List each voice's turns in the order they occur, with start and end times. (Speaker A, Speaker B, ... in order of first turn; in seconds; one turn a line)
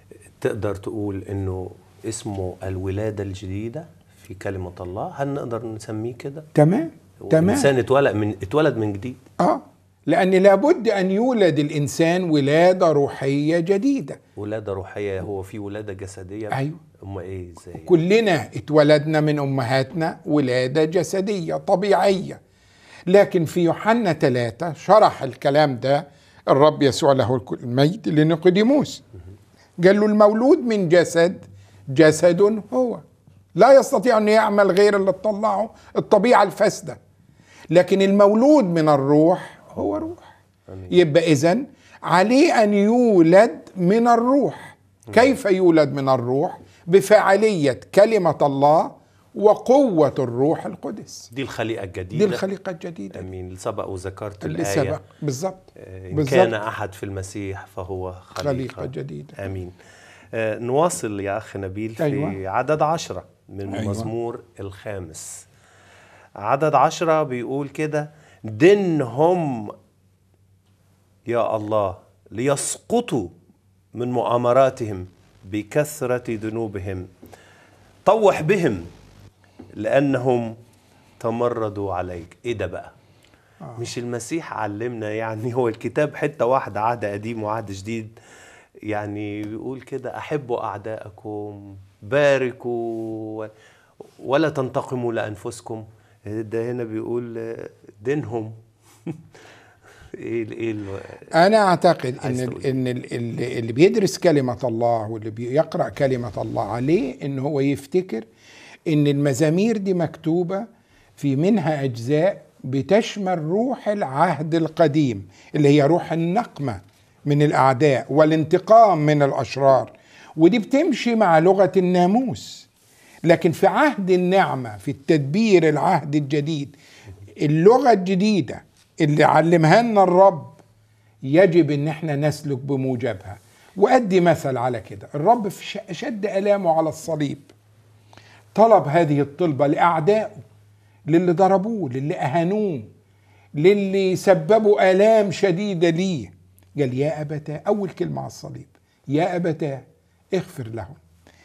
Speaker A: 0.4-6.5
Speaker B: 6.5-7.7
Speaker A: 7.2-9.2
Speaker B: 9.4-14.2
Speaker A: 14.4-17.9
Speaker B: 16.5-16.8
Speaker B: 17.8-22.4
Speaker B: 23.1-29.0
Speaker B: 29.8-33.0
Speaker B: 33.5-37.0
Speaker B: 37.7-40.3
Speaker B: 40.9-51.3
Speaker A: 51.3-52.4
Speaker B: 52.1-53.3
Speaker A: 53.1-55.0
Speaker B: 54.4-56.5
Speaker A: 55.8-59.8
Speaker B: 58.4-59.4
Speaker A: 60.3-65.5
Speaker B: 62.0-62.4
Speaker B: 63.7-64.1
Speaker A: 66.4-69.7
Speaker A: 71.3-73.3
Speaker A: 74.0-77.1
Speaker A: 78.1-78.9
Speaker A: 79.8-80.5
Speaker A: 81.2-82.9
Speaker A: 83.8-88.2
Speaker A: 88.9-93.5
Speaker A: 94.2-98.5
Speaker A: 100.1-101.3
Speaker B: 101.3-108.3
Speaker A: 102.2-102.7
Speaker B: 108.9-110.7
Speaker B: 111.2-122.7
Speaker B: 123.3-126.8
Speaker B: 127.4-130.6
Speaker B: 131.2-137.5
Speaker B: 138.5-140.5
Speaker B: 141.1-142.9
Speaker B: 143.6-151.0